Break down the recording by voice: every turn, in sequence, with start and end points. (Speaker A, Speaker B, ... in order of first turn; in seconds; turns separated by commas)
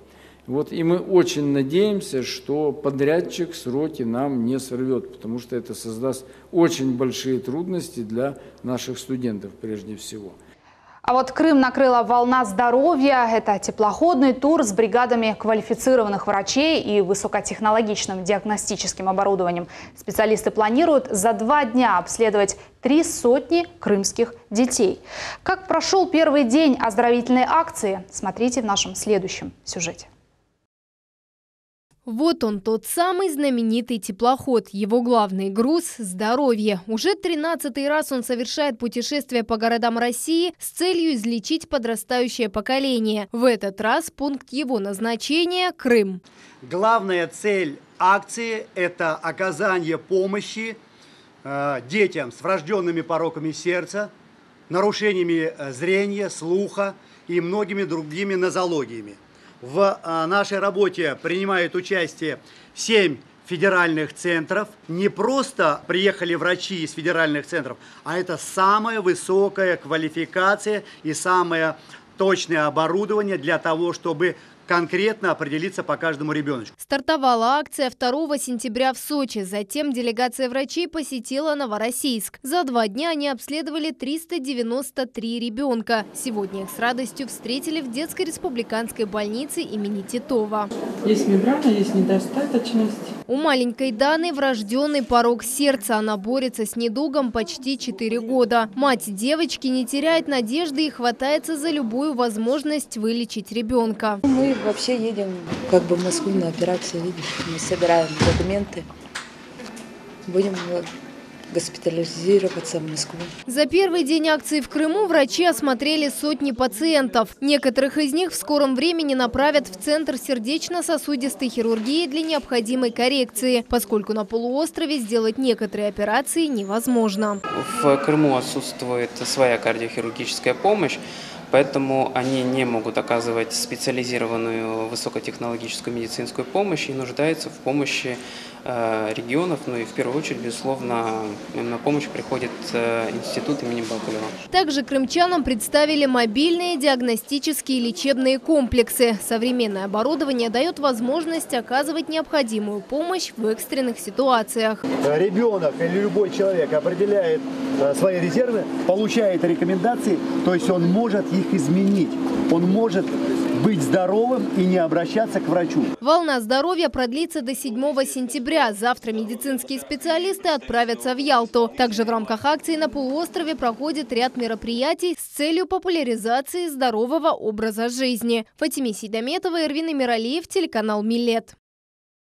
Speaker A: 0.5-10.3, Speaker B: 11.0-30.1, Speaker C: 32.0-46.2, Speaker D: 46.6-50.8, Speaker D: 51.4-54.1, Speaker D: 54.7-76.7, Speaker C: 76.8-90.7, Speaker C: 93.3-104.2, Speaker E: 104.2-108.8, Speaker E: 110.3-110.8, Speaker E: 111.5-113.2, Speaker C: 113.5-127.4, Speaker F: 127.5-144.3, Speaker C: 144.5-154.8, Speaker D: 155.0-165.9, Speaker C: 166.0-181.5